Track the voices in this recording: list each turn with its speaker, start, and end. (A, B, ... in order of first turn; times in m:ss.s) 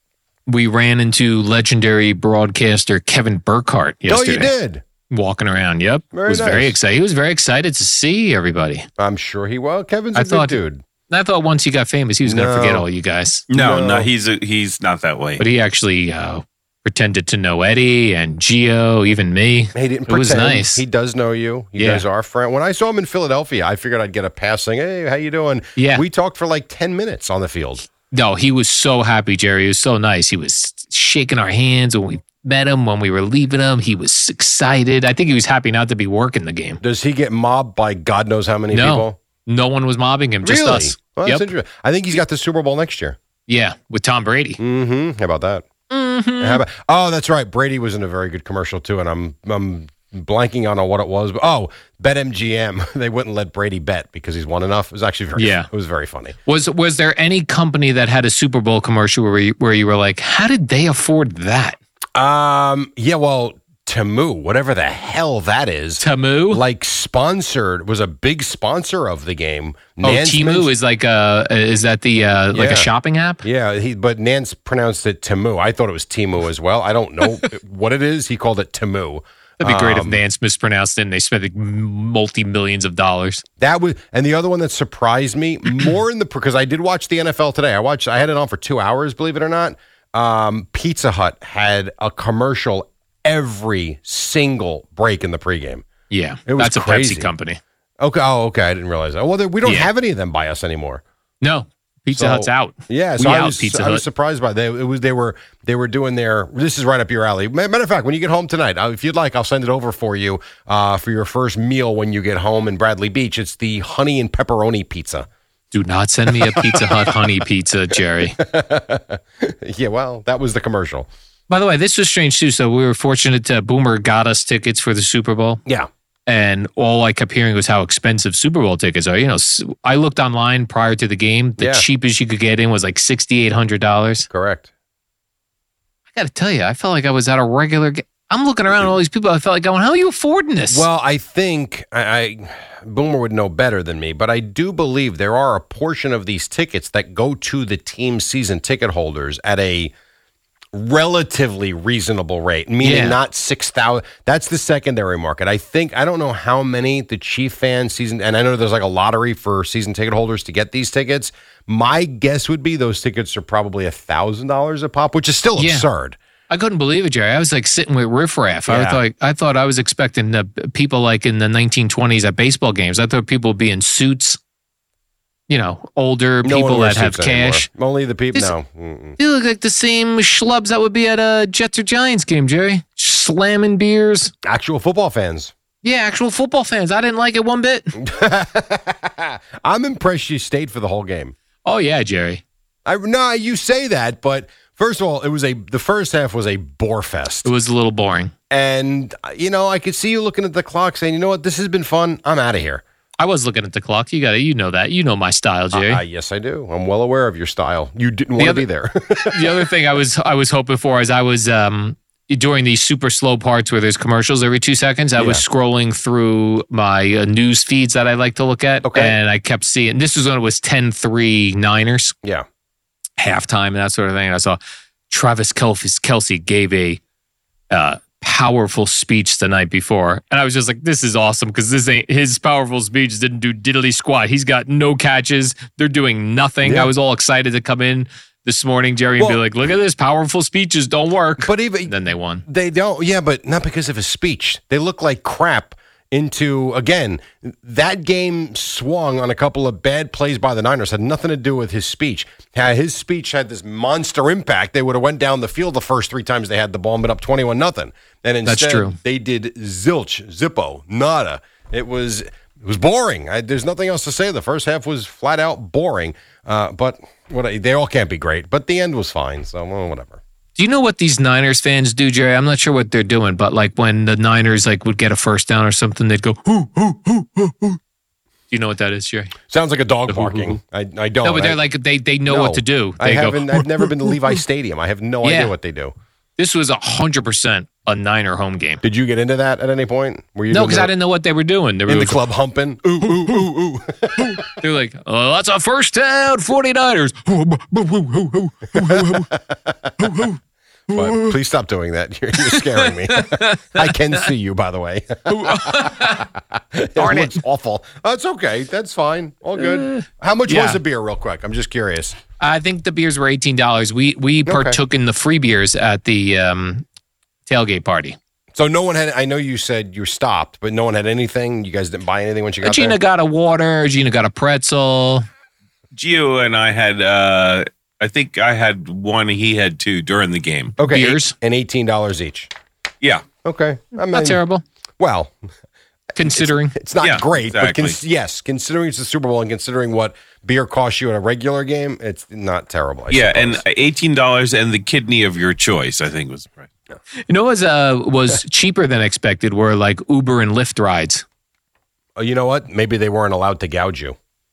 0:00.5-0:04.5 A
0:04.1-0:04.8 B
0:05.1-0:08.9 A
0:06.1-0:06.8 B
0:09.0-0:10.8 B
0:10.2-0:13.4 A
0:12.2-0:12.9 B
0:13.5-0:15.4 C
0:13.5-0:14.1 B
0:15.4-0:20.8 A
0:19.8-0:27.8 B
0:21.8-0:22.0 A
0:25.8-0:26.0 A
0:28.1-0:36.8 A
0:36.8-0:39.2 B
0:38.7-0:41.5 A
0:40.4-0:43.2 B
0:43.5-0:44.6 A
0:44.6-0:45.6 B
0:45.9-0:46.6 A
0:46.4-0:56.4 B
0:55.4-0:55.7 A
0:56.4-1:01.8 A
1:02.2-1:10.7 B
1:06.0-1:06.6 A
1:10.0-1:13.4 A
1:12.5-1:12.9 B
1:13.4-1:20.2 B
1:19.6-1:23.4 A
1:23.6-1:35.8 B
1:36.1-1:37.6 A
1:36.5-1:37.3 B
1:38.0-1:41.0 B
1:39.6-1:39.9 A
1:41.4-1:44.0 A
1:42.1-1:55.3 B
1:55.7-1:58.4 A
1:56.4-1:57.1 B
1:58.4-2:01.1 B
2:01.5-2:05.6 A
2:06.3-2:14.3 A
2:11.6-2:11.9 B
2:14.3-2:14.7 B
2:16.1-2:20.9 A
2:20.7-2:29.9 B
2:30.7-2:46.2 B
2:32.8-2:33.2 A
2:45.6-2:45.9 A
2:46.5-2:54.4 A
2:48.7-2:49.0 B
2:55.5-2:57.7 A
2:56.4-2:59.2 B
2:59.2-3:04.3 A
3:04.5-3:05.5 B
3:05.8-3:08.0 A
3:08.0-3:11.4 B
3:11.6-3:12.4 A
3:12.9-3:17.5 B
3:17.4-3:18.3 A
3:18.5-3:22.8 B
3:23.2-3:26.0 A
3:25.7-3:29.5 B
3:28.4-3:28.7 A
3:29.3-3:42.2 A
3:35.2-3:35.4 B
3:38.8-3:39.2 B
3:43.2-3:44.6 A
3:45.1-3:47.0 A
3:47.7-4:02.4 A
3:56.6-3:56.9 B
4:01.4-4:01.9 B
4:02.5-4:30.2 B
4:18.5-4:19.0 A
4:30.6-4:37.8 A
4:38.5-4:39.4 A
4:39.5-4:41.6 B
4:40.1-4:40.6 A
4:41.2-4:44.4 A
4:42.3-4:45.9 B
4:45.2-4:45.5 A
4:46.4-4:48.8 A
4:48.8-4:50.9 B
4:50.5-4:52.2 A
4:51.9-4:54.4 B
4:54.2-4:59.3 A
5:00.0-5:00.4 A
5:00.9-5:01.3 A
5:00.9-5:12.2 B
5:03.1-5:03.9 A
5:05.3-5:06.3 A
5:07.0-5:07.4 A
5:09.6-5:10.8 A
5:12.4-5:16.8 A
5:14.5-5:14.8 B
5:17.5-5:18.2 A
5:18.5-5:23.0 B
5:22.6-5:25.3 A
5:25.9-5:30.8 C
5:30.8-5:32.5 B
5:30.8-5:31.4 A
5:33.4-5:34.4 B
5:34.1-5:34.6 A
5:35.0-5:35.3 B
5:36.2-5:36.8 A
5:36.2-5:43.6 B
5:37.0-5:38.0 C
5:43.1-5:46.7 C
5:47.3-5:51.2 A
5:52.2-5:54.2 B